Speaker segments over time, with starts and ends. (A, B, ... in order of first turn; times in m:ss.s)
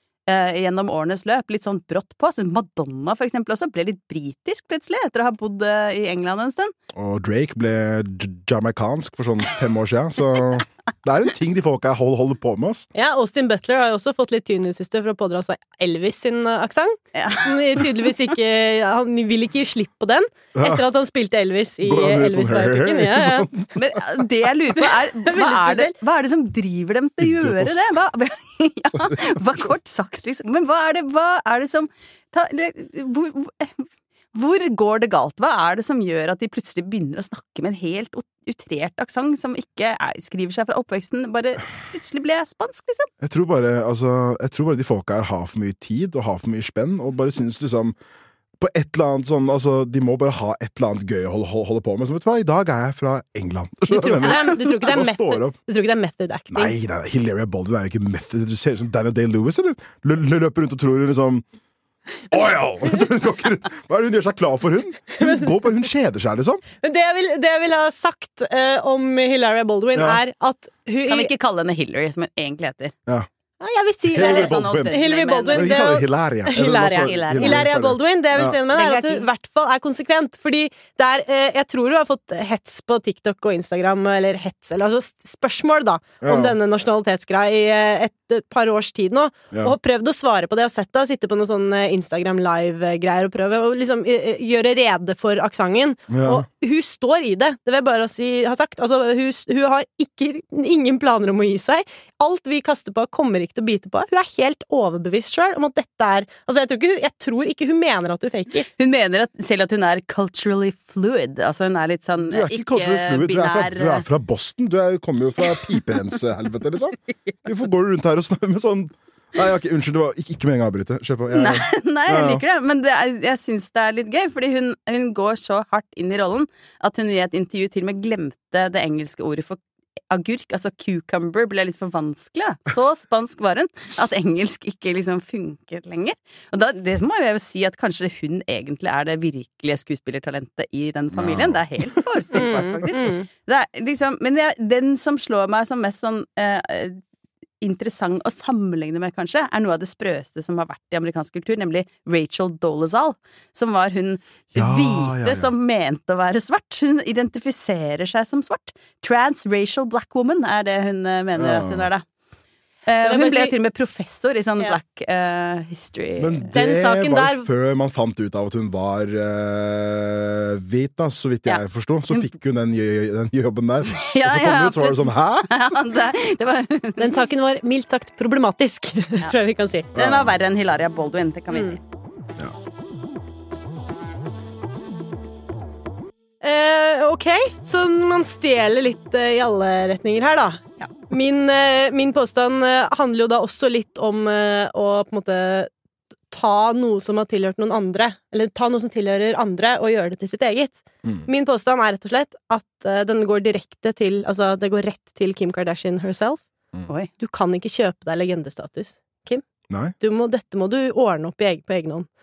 0:00.3-0:06.7 A
0:07.0-0:12.9 B
0:12.9-0:23.5 C
0:17.2-0:17.8 A
0:20.6-0:20.9 B
0:21.8-0:23.7 B
0:23.8-0:43.1 A
0:25.2-0:25.9 C
0:27.2-0:27.8 B
0:43.2-0:48.0 B
0:48.6-0:55.6 B
0:53.9-0:56.8 C
0:56.5-1:01.4 B
1:02.3-1:06.6 B
1:05.2-1:05.5 C
1:06.8-1:11.3 C
1:10.0-1:10.2 B
1:11.1-1:12.9 A
1:13.6-1:48.7 C
1:14.1-1:18.6 B
1:14.1-1:15.9 A
1:16.8-1:17.8 A
1:18.4-1:19.3 A
1:26.2-1:26.6 B
1:36.1-1:36.5 B
1:48.7-1:54.0 A
1:52.3-2:02.4 B
2:01.3-2:09.6 A
2:10.1-2:27.0 A
2:21.1-2:22.0 B
2:22.3-2:23.3 C
2:27.6-2:42.0 A
2:34.6-2:35.5 B
2:41.4-2:41.9 B
2:42.9-2:46.5 A
2:43.0-2:43.6 C
2:46.2-2:55.5 B
2:46.5-2:47.5 C
2:51.5-2:52.3 A
2:53.9-2:57.2 A
2:57.0-2:59.9 C
3:00.0-3:00.3 B
3:00.0-3:01.8 A
3:01.5-3:01.8 C
3:06.4-3:15.7 C
3:16.3-3:26.4 C
3:27.2-3:29.4 C
3:30.0-3:32.1 C